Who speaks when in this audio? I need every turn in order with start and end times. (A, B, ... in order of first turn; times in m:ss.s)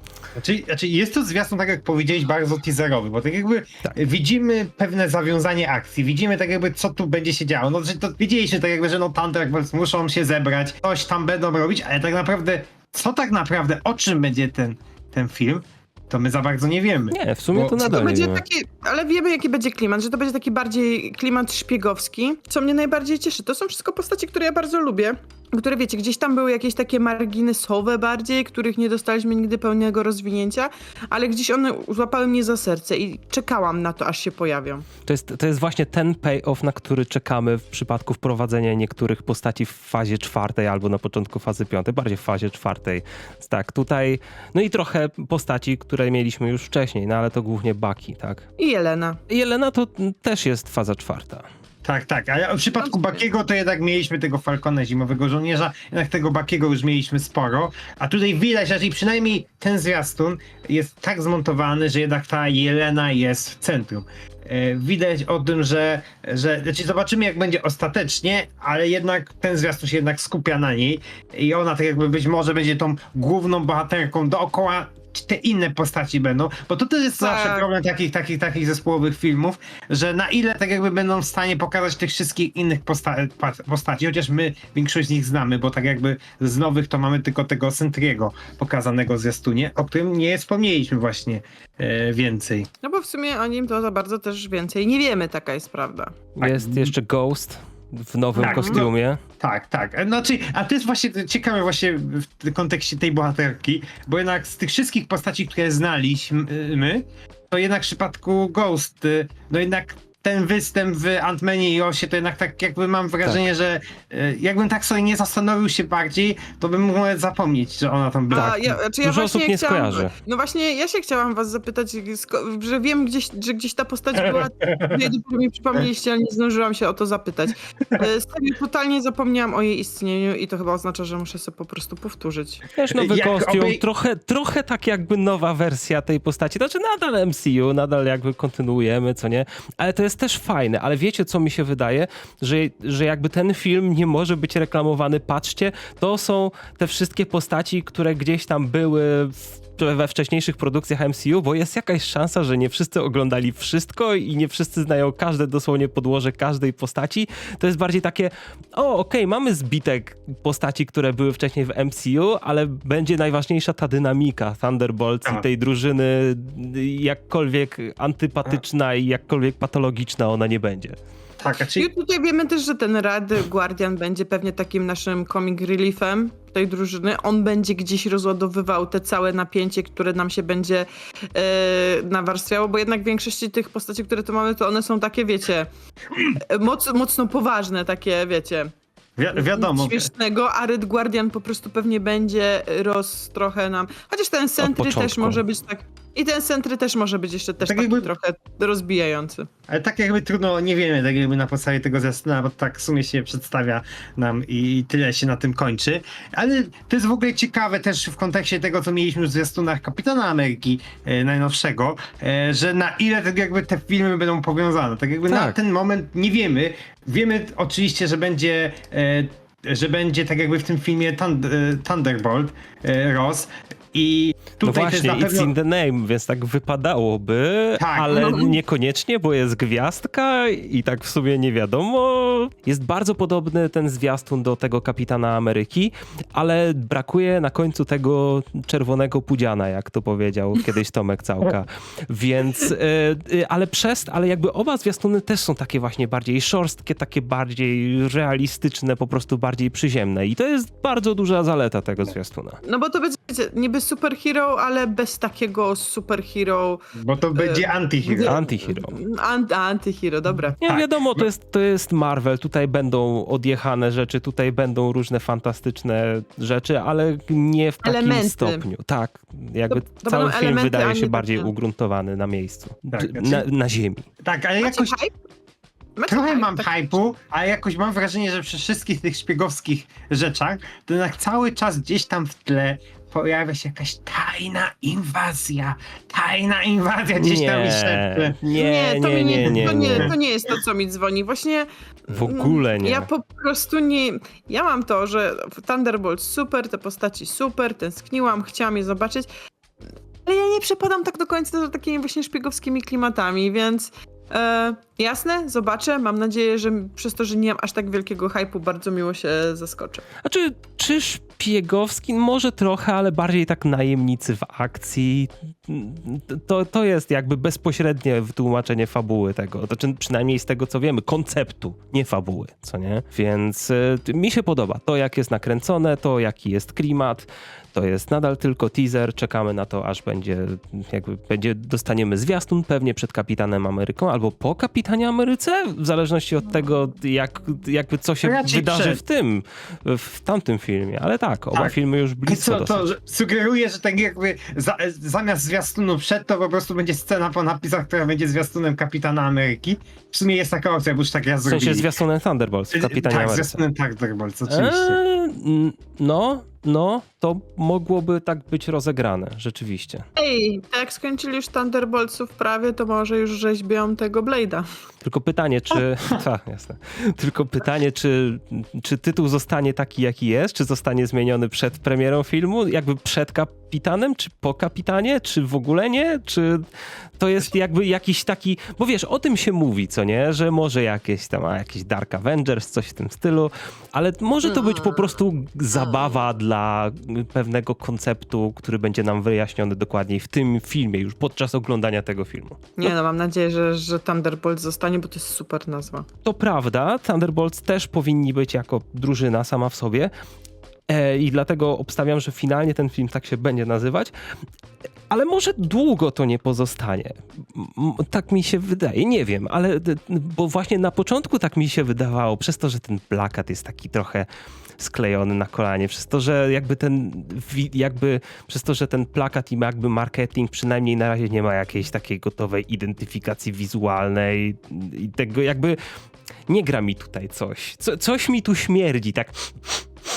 0:00.4-0:18.0 A
0:17.1-0:18.4 B
0:17.7-0:34.8 C
0:35.0-0:48.4 B
0:48.6-0:49.2 C
0:49.3-0:51.4 B
0:51.8-1:32.7 A
0:52.8-0:53.2 C
1:17.2-1:17.6 C
1:32.8-1:36.1 C
1:36.4-1:39.2 B
1:36.4-1:36.9 A
1:38.3-1:38.8 C
1:38.4-1:58.7 A
1:58.3-2:12.6 C
1:58.3-2:00.1 B
2:04.1-2:05.0 A
2:12.8-2:51.0 B
2:12.9-2:13.8 A
2:51.4-2:51.9 A
2:51.8-3:05.7 C
3:06.3-3:08.7 C
3:09.2-3:10.1 A
3:09.3-3:19.5 C
3:14.6-3:15.4 B
3:17.6-3:18.1 A
3:19.7-3:45.5 A
3:35.3-3:35.6 B
3:44.6-4:12.6 B
3:47.8-3:48.6 A
4:12.6-4:16.8 C
4:17.0-4:18.4 A
4:17.4-4:20.6 C
4:18.2-4:19.0 B
4:20.5-4:21.3 A
4:20.6-4:34.0 B
4:27.8-4:28.6 C
4:29.7-4:31.5 C
4:32.9-4:33.4 A
4:34.2-4:34.9 A
4:34.6-4:35.1 C
4:36.0-4:36.7 C
4:36.1-4:48.4 A
4:47.2-4:50.1 B
4:48.5-4:59.3 C
4:49.4-4:50.1 A
4:52.1-4:53.1 B
5:00.2-5:10.0 C
5:10.2-5:42.9 B
5:38.2-5:39.0 A
5:42.3-5:51.9 A
5:51.4-5:53.6 B
5:52.7-5:55.0 A
5:54.5-6:00.0 B
6:00.2-6:04.6 C
6:05.0-6:16.6 B
6:17.2-6:32.9 B
6:24.6-6:25.0 C
6:32.8-6:36.0 C
6:36.2-6:40.1 B
6:40.9-6:44.1 B
6:45.1-6:54.3 B
6:54.8-7:05.8 B
7:06.5-7:09.8 B